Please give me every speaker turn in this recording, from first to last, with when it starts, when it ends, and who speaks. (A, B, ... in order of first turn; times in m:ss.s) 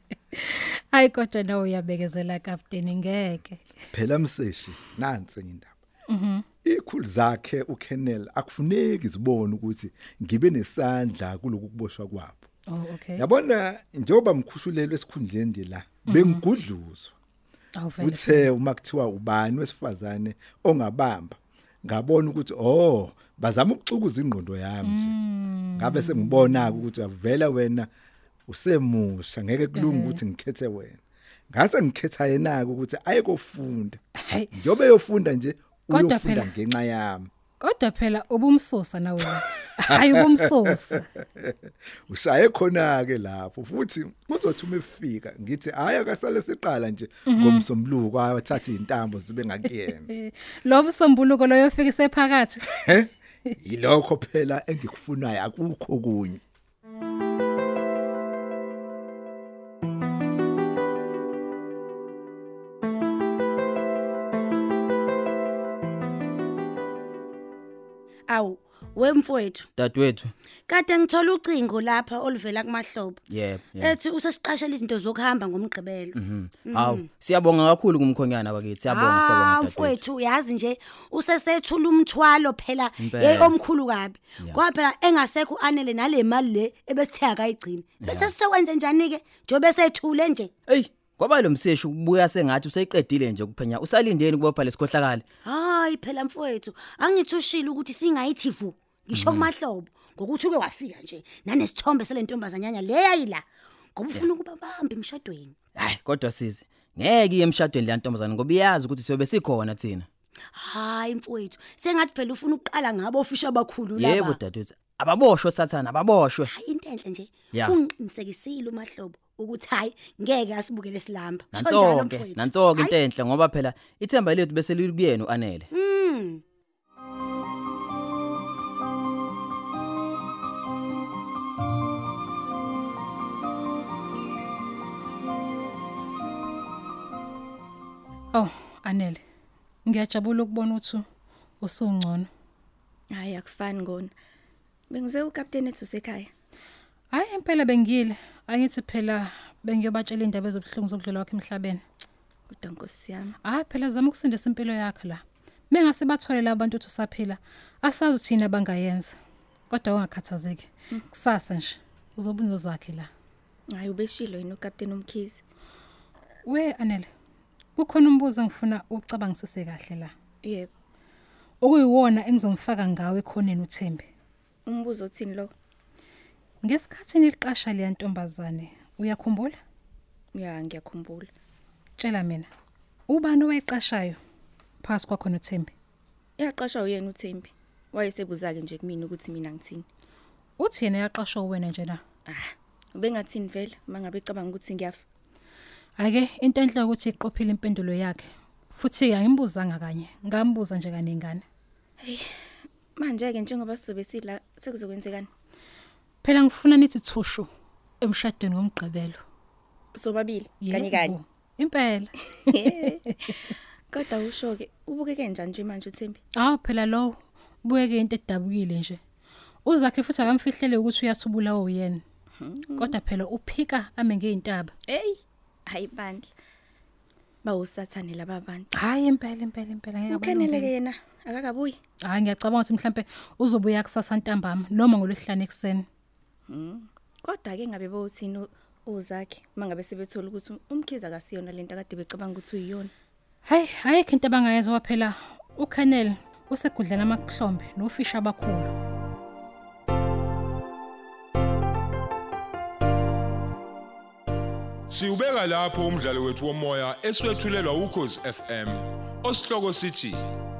0:00.3-0:03.6 A
0:03.9-0:05.8 B
0:06.1-0:06.4 A
0:06.6-0:12.5 B
0:12.7-0:13.2 A
0:13.2-0:17.2 B
0:16.1-0:16.4 A
0:17.8-0:18.5 A
0:18.0-0:25.2 B
0:24.8-0:26.8 A
0:25.8-0:27.9 B
0:28.5-0:31.0 B
0:29.8-0:30.2 A
0:31.5-0:34.0 B
0:34.2-0:34.5 A
0:34.5-0:37.3 B
0:35.9-0:36.5 A
0:37.6-0:41.1 A
0:39.9-0:50.1 B
0:47.3-0:47.6 A
0:49.9-0:52.7 A
0:52.7-0:56.4 B
1:08.3-1:09.7 C
1:09.8-1:10.3 D
1:10.7-1:13.2 C
1:13.3-1:13.9 D
1:13.8-1:17.1 C
1:16.1-1:20.0 D
1:18.8-1:30.5 C
1:23.0-1:23.6 D
1:28.0-1:28.3 D
1:30.7-1:35.2 D
1:35.4-1:45.6 C
1:39.1-1:39.5 D
1:45.8-1:50.1 D
1:50.5-1:54.4 C
1:54.0-1:56.5 D
1:56.5-2:03.0 C
2:01.5-2:05.7 D
2:05.7-2:06.4 C
2:18.3-2:19.2 A
2:19.8-2:21.0 A
2:21.6-2:22.3 A
2:23.1-2:24.1 E
2:24.9-2:26.3 E
2:27.1-2:31.8 A
2:32.5-2:33.4 E
2:33.4-2:39.2 A
2:39.7-2:43.1 A
2:43.7-2:45.4 E
2:46.4-2:47.1 A
2:47.8-2:50.1 A
2:50.4-2:50.7 E
2:51.6-2:54.1 A
2:54.7-2:55.5 E
2:56.6-2:59.6 A
3:00.3-3:01.3 E
3:02.0-3:02.5 A
3:03.1-3:04.2 A
3:04.8-3:05.7 A
3:06.4-3:09.9 E
3:10.6-3:12.0 A
3:12.3-3:15.0 E
3:16.0-3:18.2 A
3:18.8-3:21.4 A
3:22.0-3:22.3 E
3:23.0-3:25.3 E
3:26.2-3:27.5 A
3:28.0-3:29.2 A
3:30.0-3:31.2 E
3:30.6-3:32.6 A
3:32.5-3:36.2 E
3:36.4-3:39.0 A
3:39.6-3:42.0 A
3:42.4-3:43.0 E
3:42.8-3:44.7 A
3:44.9-3:46.3 E
3:47.4-3:48.7 E
3:48.8-3:50.7 A
3:50.1-3:51.8 E
3:52.1-3:55.8 A
3:56.5-4:02.9 E
4:03.5-4:08.7 A
4:14.9-4:20.3 F